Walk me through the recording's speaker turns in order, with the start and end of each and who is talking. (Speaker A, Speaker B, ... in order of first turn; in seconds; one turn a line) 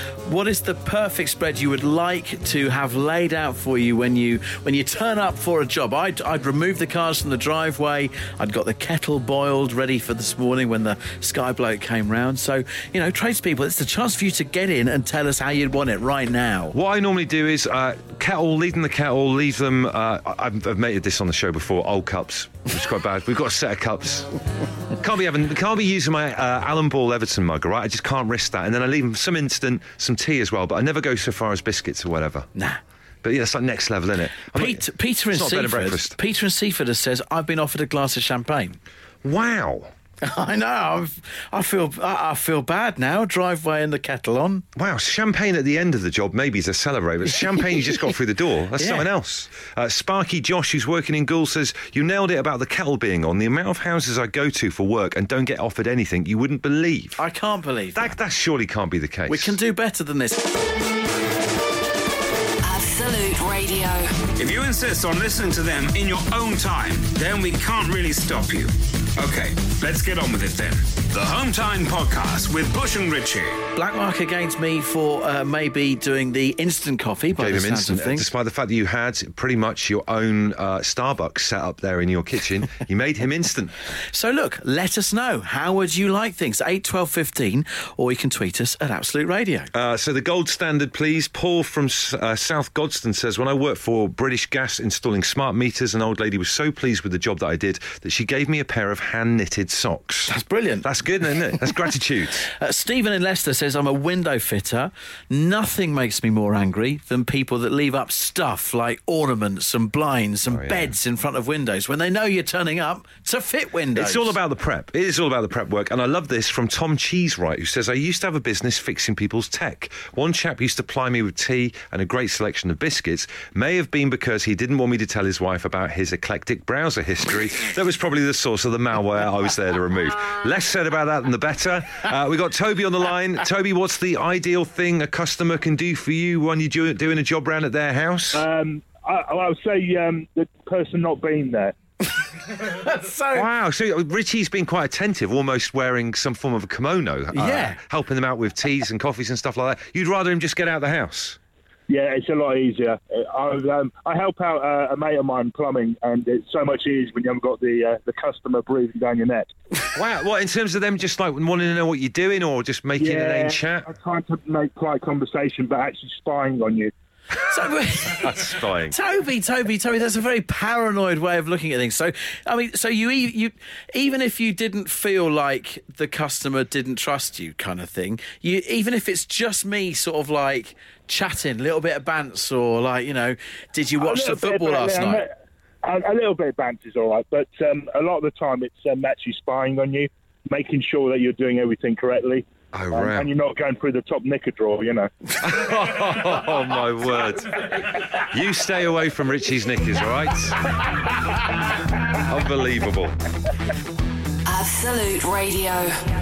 Speaker A: 0.2-16.8
Speaker B: 16.7-24.3
Speaker B: 24.9-32.5
Speaker A: 32.5-32.8
Speaker B: 33.2-36.1
Speaker A: 34.5-38.8
Speaker B: 39.2-39.9
Speaker A: 40.2-44.6
Speaker B: 44.8-57.2
Speaker A: 48.8-49.1
Speaker A: 57.2-58.1
Speaker B: 57.9-59.5
Speaker A: 59.3-60.5
Speaker C: 62.6-64.2
Speaker D: 64.4-73.6
Speaker A: 73.7-78.3
Speaker B: 77.3-83.7
Speaker A: 84.1-89.7
Speaker B: 89.7-102.5
Speaker A: 100.3-100.9
Speaker A: 102.4-114.4
Speaker B: 110.5-110.9
Speaker B: 113.9-138.4
Speaker E: 138.3-141.8
Speaker A: 142.6-143.5
Speaker B: 143.3-151.4
Speaker A: 147.3-147.8
Speaker E: 151.9-159.5
Speaker B: 159.9-163.9
Speaker E: 163.0-166.9
Speaker A: 167.4-185.2
Speaker B: 168.0-168.9
Speaker E: 184.0-195.1
Speaker B: 192.7-193.3
Speaker B: 195.4-200.7
Speaker B: 202.1-203.2
Speaker C: 204.4-205.9